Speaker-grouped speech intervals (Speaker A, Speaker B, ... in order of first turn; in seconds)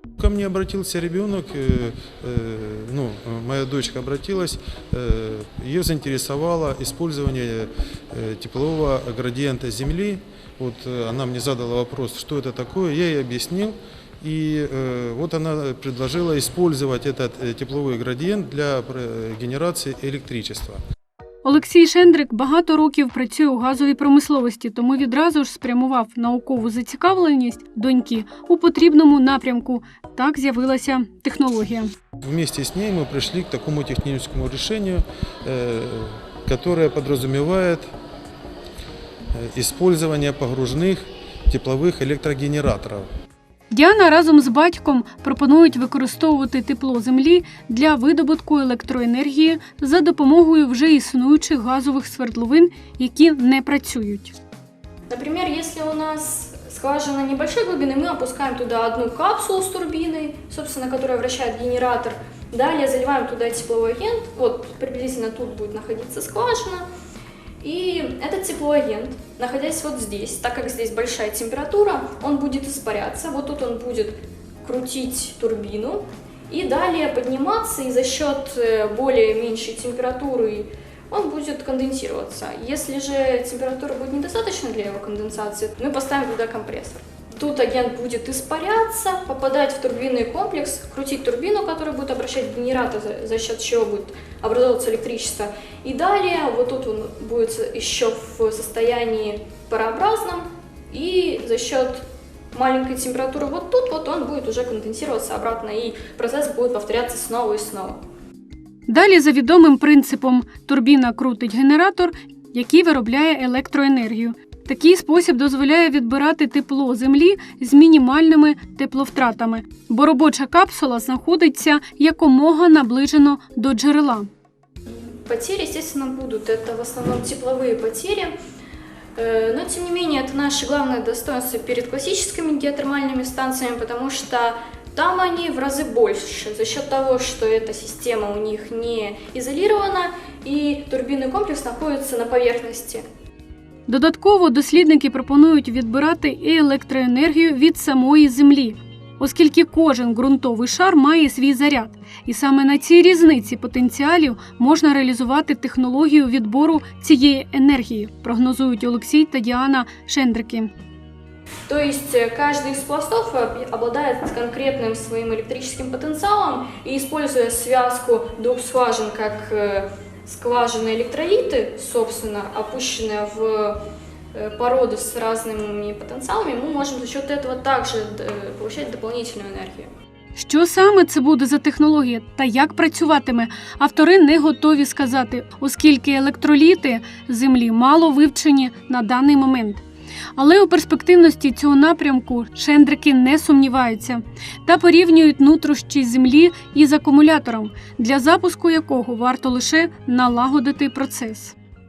Speaker A: 0.2-20.8, 32.2-37.9, 39.3-43.1
Speaker B: 21.4-31.9, 43.7-54.3, 108.9-124.3, 143.9-160.7, 180.3-189.8, 190.4-201.5
Speaker C: 55.1-66.8, 67.6-108.0, 125.2-128.3, 129.2-143.0, 161.7-173.8, 174.3-179.9